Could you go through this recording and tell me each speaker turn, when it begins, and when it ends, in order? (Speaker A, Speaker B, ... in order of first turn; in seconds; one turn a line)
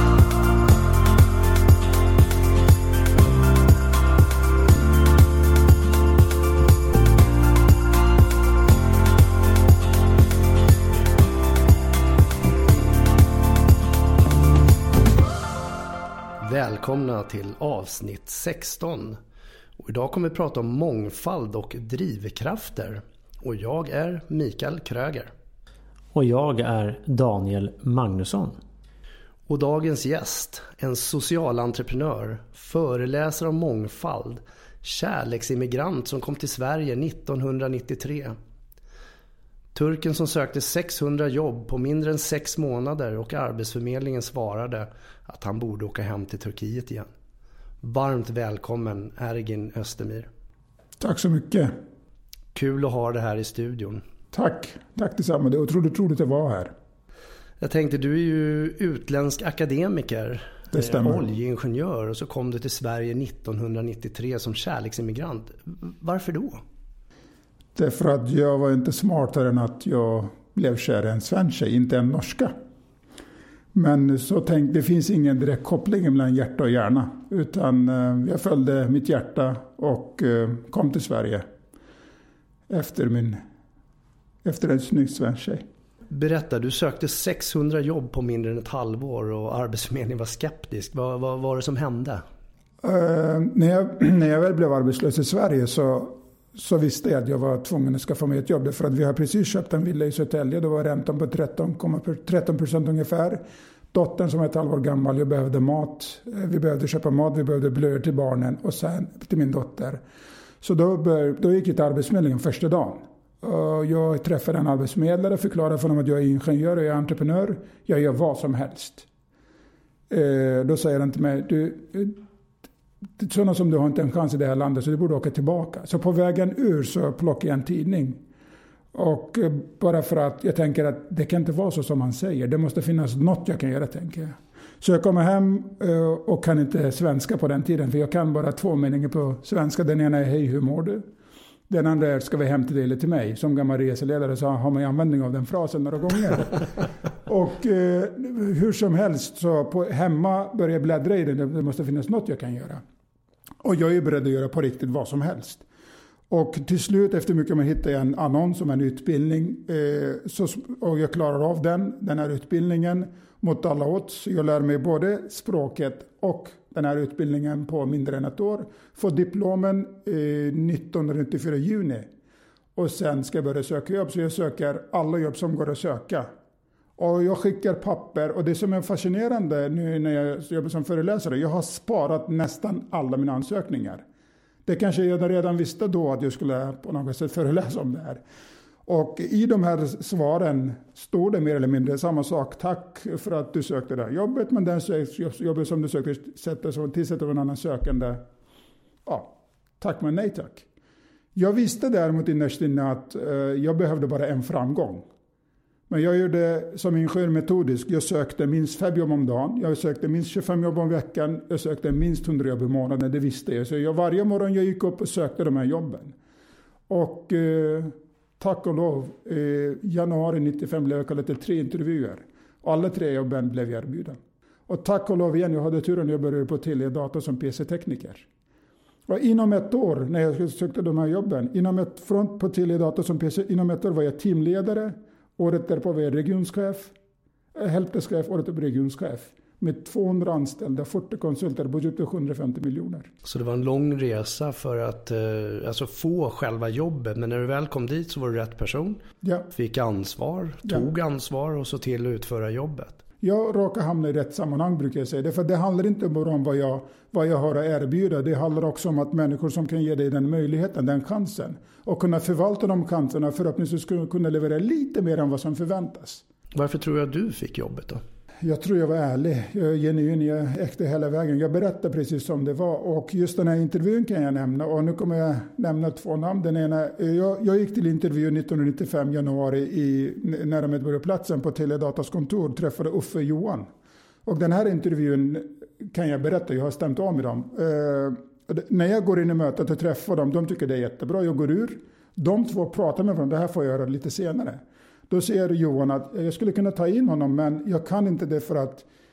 Speaker A: 16.4-19.2
Speaker A: 19.8-25.3
Speaker B: 26.1-28.6
Speaker A: 29.5-38.4
Speaker A: 39.8-47.1
Speaker A: 47.8-50.3
Speaker C: 51.0-51.7
Speaker A: 52.5-54.0
Speaker C: 54.3-56.7
Speaker A: 57.6-66.6
Speaker C: 60.7-61.2
Speaker C: 67.8-72.5
Speaker C: 73.7-81.5
Speaker C: 82.7-83.4
Speaker C: 84.4-85.6
Speaker A: 86.1-92.2
Speaker C: 92.8-110.0
Speaker C: 110.6-119.1
Speaker C: 120.1-122.2
Speaker C: 123.2-128.2
Speaker C: 128.9-141.0
Speaker C: 141.7-146.7
Speaker C: 147.3-152.8
Speaker C: 153.6-155.7
Speaker C: 156.3-172.1
Speaker C: 172.8-176.3
Speaker C: 177.0-184.0
Speaker C: 184.7-188.2
Speaker C: 188.9-198.2
Speaker C: 199.1-200.7
Speaker C: 201.3-205.0
Speaker C: 205.9-216.2
Speaker C: 216.9-228.3
Speaker C: 229.1-236.9
Speaker C: 237.5-243.1
Speaker A: 243.2-253.0
Speaker C: 253.2-266.2
Speaker A: 266.6-268.0
Speaker C: 268.4-283.7
Speaker C: 284.2-298.9